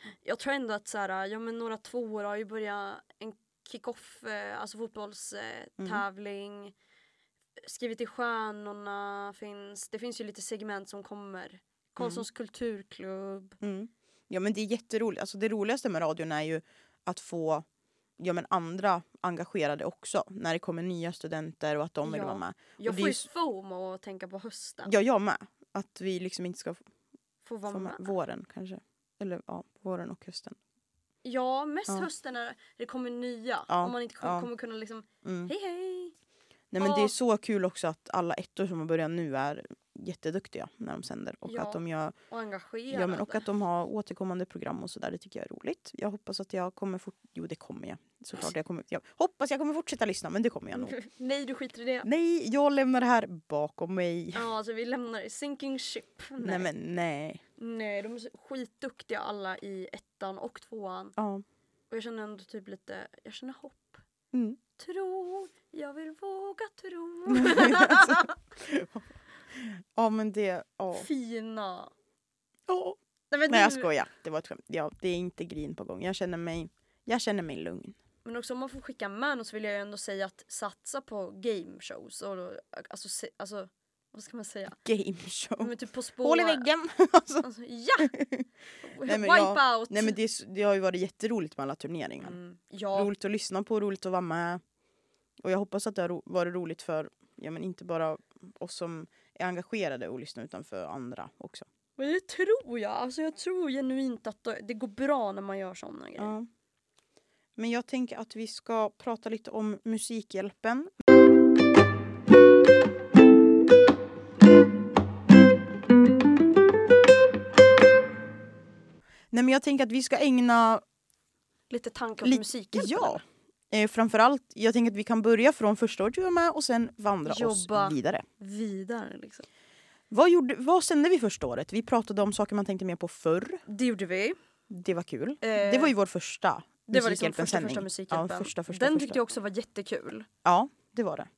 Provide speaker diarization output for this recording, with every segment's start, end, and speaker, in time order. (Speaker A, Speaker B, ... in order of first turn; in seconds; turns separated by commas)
Speaker A: 0.2-6.8, Speaker B: 5.8-6.0, Speaker A: 7.6-13.6, Speaker B: 12.0-12.2, Speaker B: 13.6-17.7, Speaker B: 18.2-23.3, Speaker A: 22.0-24.9, Speaker B: 24.9-26.8, Speaker A: 27.4-28.1, Speaker B: 27.7-30.6, Speaker A: 31.2-36.1, Speaker B: 33.7-34.5, Speaker B: 35.2-35.5, Speaker B: 36.7-42.1, Speaker A: 36.8-37.1, Speaker A: 41.5-43.5, Speaker B: 42.9-51.0, Speaker A: 50.7-52.1, Speaker B: 52.0-54.5, Speaker A: 54.3-56.7, Speaker B: 56.4-57.4, Speaker A: 57.6-61.2, Speaker B: 61.2-61.5, Speaker A: 61.9-64.0, Speaker B: 64.3-64.6, Speaker A: 64.8-68.4, Speaker B: 67.3-71.1, Speaker A: 70.9-71.9, Speaker B: 72.7-78.0, Speaker A: 73.3-73.9, Speaker A: 78.2-84.8, Speaker B: 84.8-87.5, Speaker A: 85.6-86.7, Speaker A: 87.4-88.1, Speaker B: 88.0-88.5, Speaker A: 88.8-90.2, Speaker B: 89.0-92.4, Speaker A: 92.2-93.1, Speaker B: 93.0-94.6, Speaker B: 95.4-101.7, Speaker A: 102.0-106.3, Speaker B: 106.2-106.5, Speaker B: 107.6-110.9, Speaker B: 119.3-120.8, Speaker A: 121.7-123.2, Speaker B: 122.2-128.2, Speaker A: 127.2-129.5, Speaker B: 130.1-133.6, Speaker A: 133.7-134.4, Speaker B: 134.7-139.2, Speaker A: 135.4-135.9, Speaker A: 136.9-140.3, Speaker B: 140.4-141.3